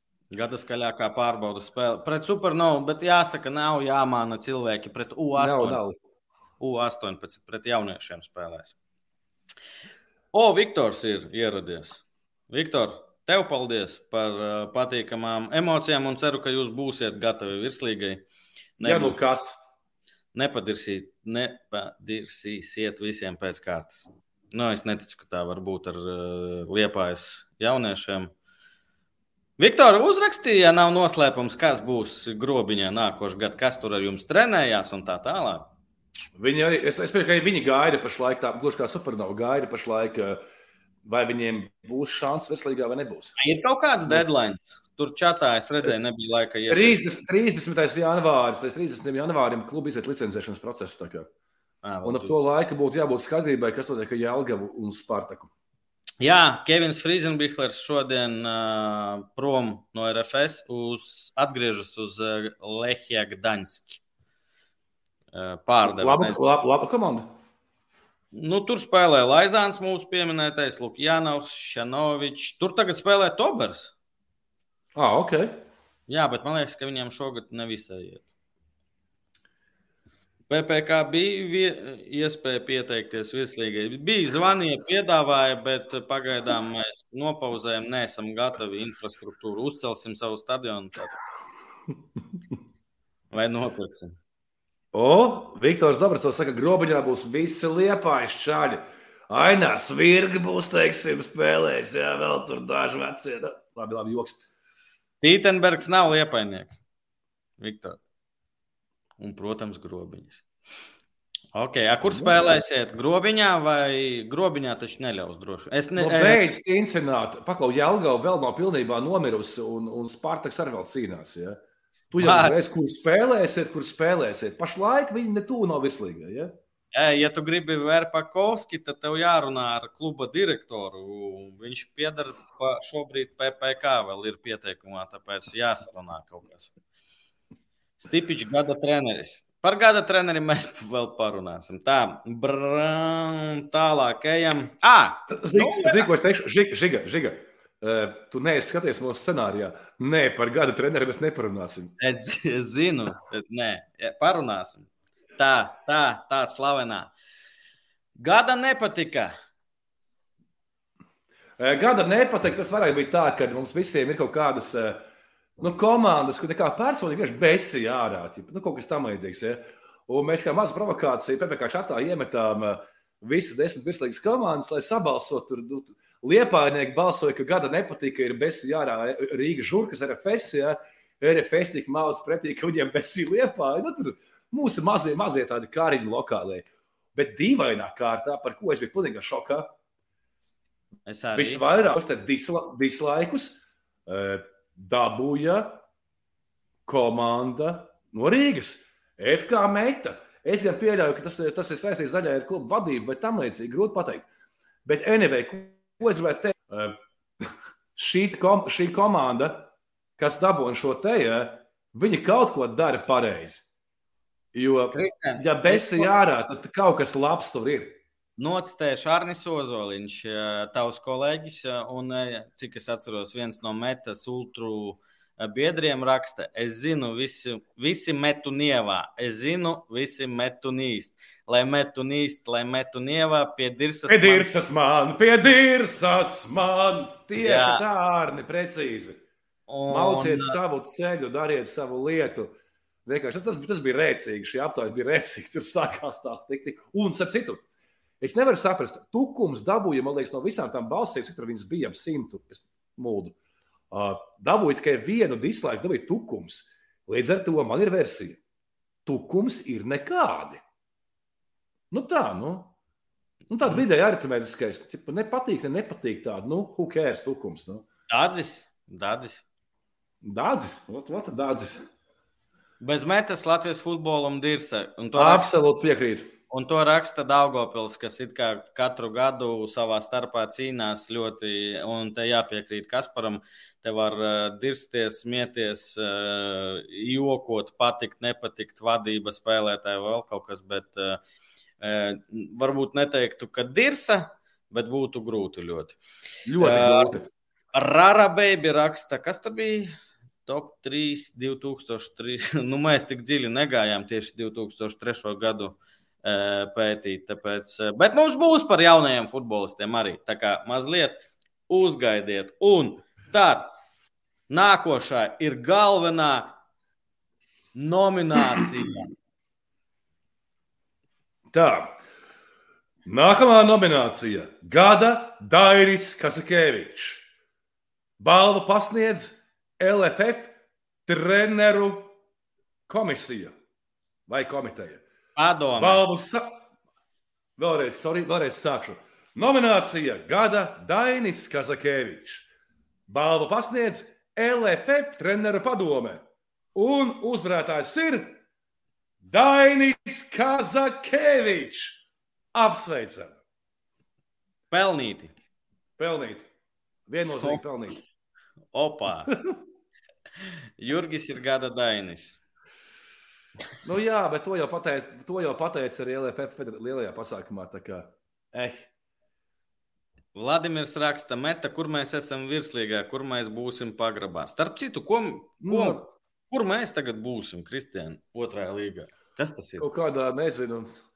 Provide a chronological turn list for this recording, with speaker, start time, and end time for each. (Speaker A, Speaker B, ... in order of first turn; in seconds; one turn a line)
Speaker A: 0.3-5.8
Speaker B: 5.3-6.0
Speaker A: 6.6-8.8
Speaker A: 10.3-18.2
Speaker A: 18.8-19.2
Speaker B: 18.8-19.6
Speaker A: 20.3-28.3
Speaker A: 29.6-35.7
Speaker B: 36.4-40.4
Speaker B: 41.0-43.3
Speaker A: 43.4-47.0
Speaker B: 46.7-51.2
Speaker A: 51.8-52.5
Speaker B: 52.0-55.5
Speaker A: 56.2-64.0
Speaker A: 65.3-66.4
Speaker B: 65.8-67.3
Speaker A: 68.3-73.9
Speaker B: 74.9-75.6
Speaker A: 76.1-78.3
Speaker A: 80.5-91.2
Speaker A: 93.3-94.2
Speaker B: 94.9-104.4
Speaker A: 105.2-106.8
Speaker A: 107.6-108.0
Speaker A: 109.2-110.4
Speaker A: 111.5-116.4
Speaker B: 112.1-112.3
Speaker B: 116.0-121.6
Speaker B: 122.1-126.5
Speaker A: 122.2-122.6
Speaker A: 126.9-136.7
Speaker A: 138.0-146.1
Speaker B: 145.3-151.9
Speaker A: 152.0-157.1
Speaker A: 158.2-159.3
Speaker B: 161.6-165.0
Speaker B: 165.6-189.7
Speaker A: 191.1-191.9
Speaker B: 191.3-195.8
Speaker B: 196.8-204.3
Speaker B: 204.8-213.7
Speaker B: 214.5-218.0
Speaker A: 214.9-216.1
Speaker A: 218.4-234.5
Speaker B: 234.1-239.2
Speaker A: 237.4-237.8
Speaker A: 239.7-240.6
Speaker B: 239.9-242.5
Speaker B: 243.1-247.6
Speaker B: 248.2-253.3
Speaker B: 253.9-258.4
Speaker B: 259.1-260.6
Speaker B: 261.9-262.7
Speaker B: 263.5-267.8
Speaker A: 268.1-269.4
Speaker B: 270.2-271.8
Speaker A: 272.8-275.5
Speaker B: 275.1-276.3
Speaker A: 276.5-291.2
Speaker A: 291.8-296.0
Speaker B: 296.4-297.2
Speaker A: 296.6-297.2
Speaker A: 297.7-299.9
Speaker A: 300.4-313.7
Speaker A: 314.5-316.6
Speaker A: 317.7-319.1
Speaker B: 321.5-321.9
Speaker B: 323.1-327.2
Speaker B: 328.2-330.5
Speaker B: 331.1-332.1
Speaker B: 332.9-333.5
Speaker B: 334.3-335.0
Speaker A: 335.4-336.0
Speaker B: 335.8-336.4
Speaker B: 337.6-342.4
Speaker B: 343.1-346.2
Speaker B: 346.7-348.4
Speaker B: 349.2-352.0
Speaker B: 352.5-353.4
Speaker A: 354.7-355.3
Speaker B: 356.0-356.5
Speaker B: 357.1-358.0
Speaker A: 358.7-359.3
Speaker B: 359.3-359.5
Speaker A: 360.8-362.4
Speaker B: 363.8-368.9
Speaker A: 370.3-379.9
Speaker B: 375.6-376.0
Speaker B: 379.8-380.9